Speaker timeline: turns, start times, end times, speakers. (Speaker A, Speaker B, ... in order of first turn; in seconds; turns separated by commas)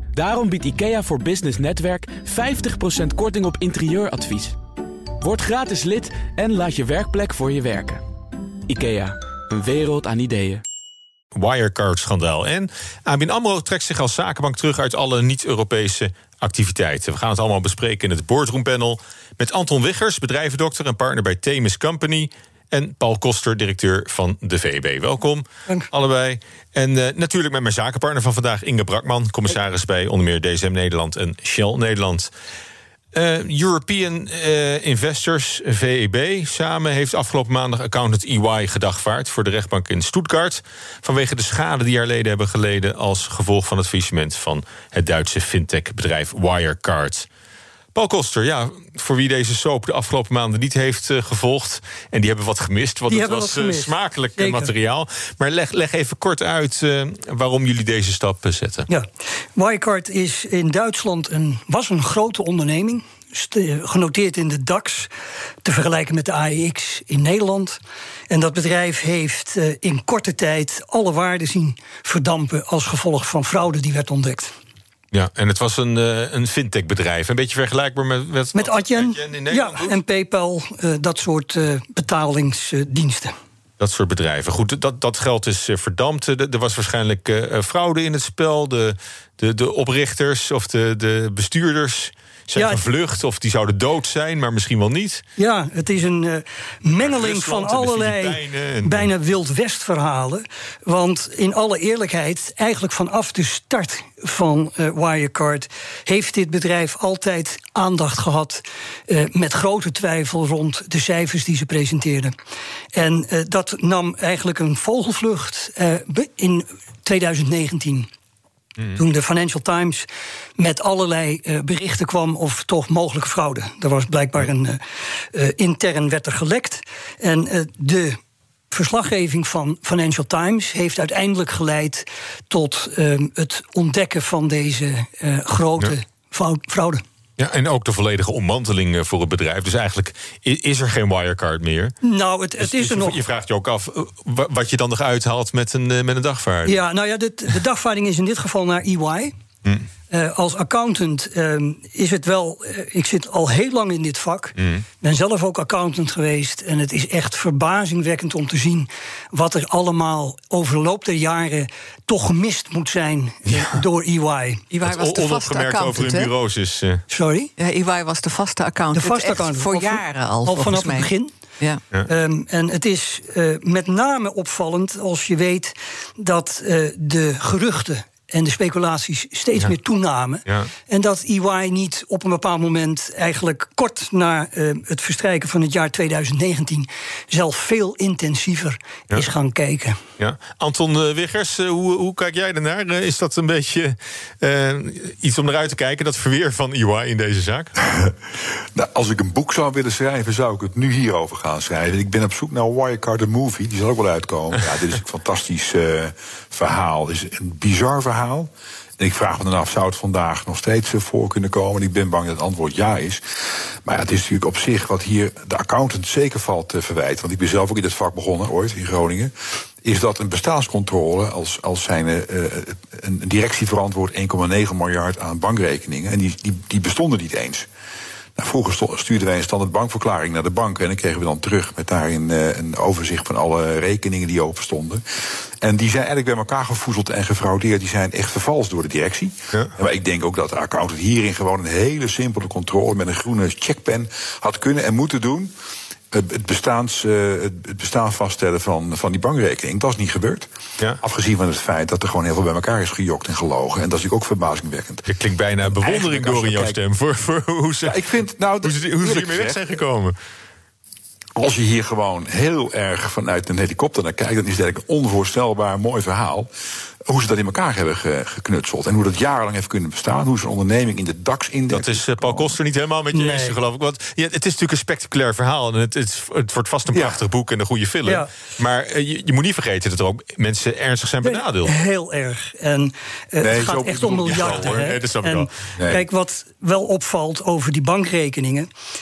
Speaker A: 0.1-4.6, Speaker A: 5.2-8.0, Speaker A: 8.7-10.6, Speaker B: 11.3-32.3, Speaker B: 33.1-47.3, Speaker B: 47.9-58.9, Speaker C: 53.1-54.7, Speaker C: 58.9-65.1, Speaker C: 65.6-67.8, Speaker C: 68.3-74.5, Speaker B: 75.1-80.0, Speaker C: 78.5-83.3, Speaker B: 83.8-95.2, Speaker C: 92.6-92.8, Speaker C: 95.4-112.3, Speaker B: 97.0-99.1, Speaker C: 112.9-118.1, Speaker C: 119.0-120.1, Speaker C: 120.6-124.8, Speaker C: 125.3-128.2, Speaker C: 128.7-137.0, Speaker B: 137.4-141.9, Speaker C: 142.0-143.2, Speaker B: 142.6-146.8, Speaker C: 146.7-149.3, Speaker C: 150.1-164.7, Speaker B: 154.6-154.8, Speaker D: 164.7-166.3, Speaker B: 164.8-167.0, Speaker C: 167.1-167.5, Speaker D: 167.6-171.1, Speaker C: 168.9-171.3, Speaker C: 172.1-190.0, Speaker B: 190.2-197.7, Speaker E: 197.8-227.7, Speaker E: 228.4-245.5, Speaker E: 246.1-250.5, Speaker E: 251.0-255.1, Speaker B: 255.1-258.0, Speaker E: 255.7-256.8, Speaker E: 257.9-259.8, Speaker B: 258.6-260.1, Speaker E: 261.4-266.5, Speaker E: 267.1-272.6, Speaker B: 271.7-281.7, Speaker C: 273.1-273.6, Speaker E: 276.9-277.2, Speaker C: 281.2-288.7, Speaker E: 283.4-284.6, Speaker B: 284.3-285.5, Speaker E: 285.8-286.0